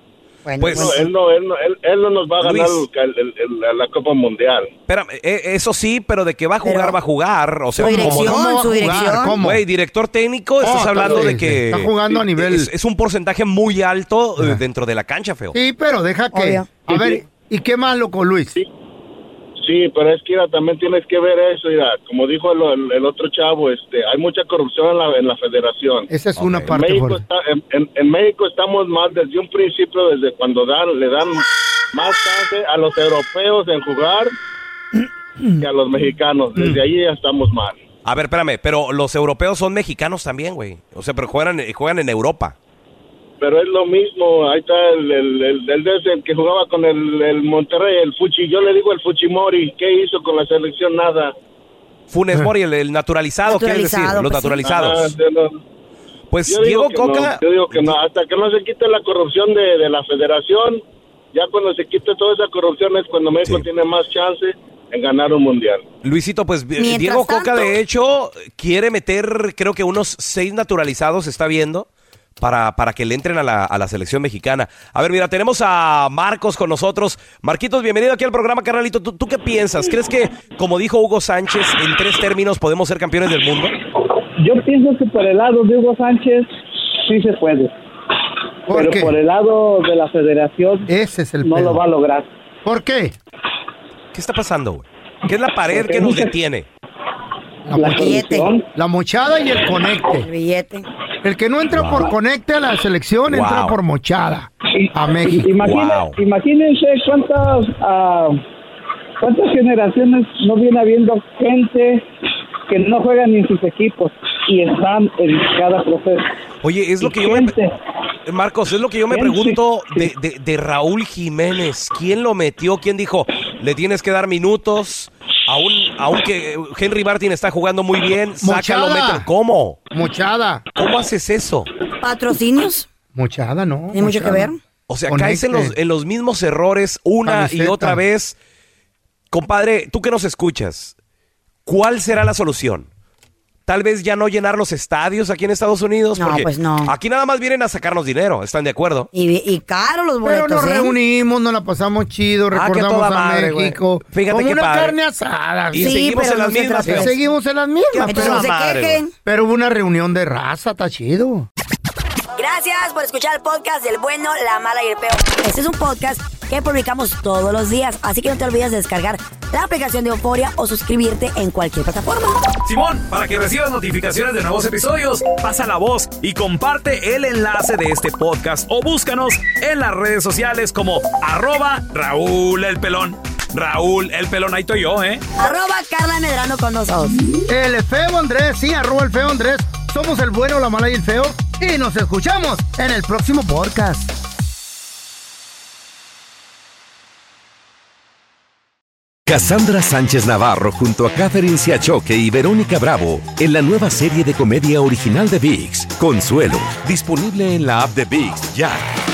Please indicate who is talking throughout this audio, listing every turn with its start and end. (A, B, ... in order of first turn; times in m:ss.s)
0:00.4-0:01.1 A
0:00.6-0:01.0 B
0:00.7-0:04.7 C
0:02.4-0:02.9 B
0:04.9-0:08.4 B
0:06.6-0:07.0 A
0:07.8-0:09.4 A
0:07.8-0:09.6 D
0:09.4-0:15.6 B
0:10.6-0:12.7 D
0:15.5-0:18.6 D
0:16.3-0:16.8 A
0:16.9-0:17.2 C
0:19.6-0:26.1 C
0:26.1-0:27.2 D
0:26.4-0:26.7 B
0:26.7-0:34.3 C
0:35.6-0:37.8 C
0:36.6-0:36.9 D
0:38.0-0:42.6 B
0:43.4-0:51.3 C
0:52.1-0:55.1 B
0:53.4-0:54.7 A
0:54.6-0:55.6 C
0:56.3-0:58.0 B
0:56.5-1:00.8 C
1:01.3-1:05.8 C
1:03.4-1:03.7 B
1:06.0-1:11.9 B
1:06.8-1:07.8 A
1:12.4-1:23.8 B
1:24.4-1:26.5 E
1:27.0-1:27.7 E
1:28.7-1:29.2 D
1:28.7-1:30.9 E
1:30.9-1:31.8 D
1:31.4-1:32.3 E
1:32.6-1:33.2 D
1:34.1-1:36.7 B
1:35.7-1:36.4 E
1:37.7-1:40.3 D
1:37.7-1:38.7 E
1:38.0-1:38.4 A
1:40.2-1:40.9 A
1:41.2-1:45.6 D
1:41.7-1:42.1 B
1:43.3-1:43.8 B
1:44.7-1:48.4 E
1:45.6-1:46.2 B
1:49.2-1:52.0 E
1:52.7-1:56.3 E
1:56.6-1:57.6 B
1:57.0-1:57.8 E
1:58.3-2:09.8 B
1:59.1-2:00.1 E
2:08.4-2:09.3 D
2:09.9-2:10.6 D
2:10.8-2:11.7 B
2:12.0-2:12.9 A
2:13.1-2:14.5 D
2:13.9-2:14.6 A
2:14.9-2:18.4 B
2:15.1-2:15.7 D
2:17.2-2:18.0 D
2:19.3-2:21.0 B
2:21.7-2:22.9 B
2:23.7-2:29.1 B
2:26.2-2:26.9 A
2:29.1-2:31.0 A
2:30.2-2:36.0 D
2:32.5-2:35.0 B
2:35.7-2:37.1 B
2:35.7-2:37.2 A
2:36.9-2:38.5 D
2:37.9-2:39.0 B
2:38.0-2:39.1 A
2:39.2-2:41.5 D
2:42.4-2:52.4 A
2:52.6-3:05.2 F
3:05.4-3:07.2 A
3:07.5-3:14.1 D
3:19.3-3:28.8 G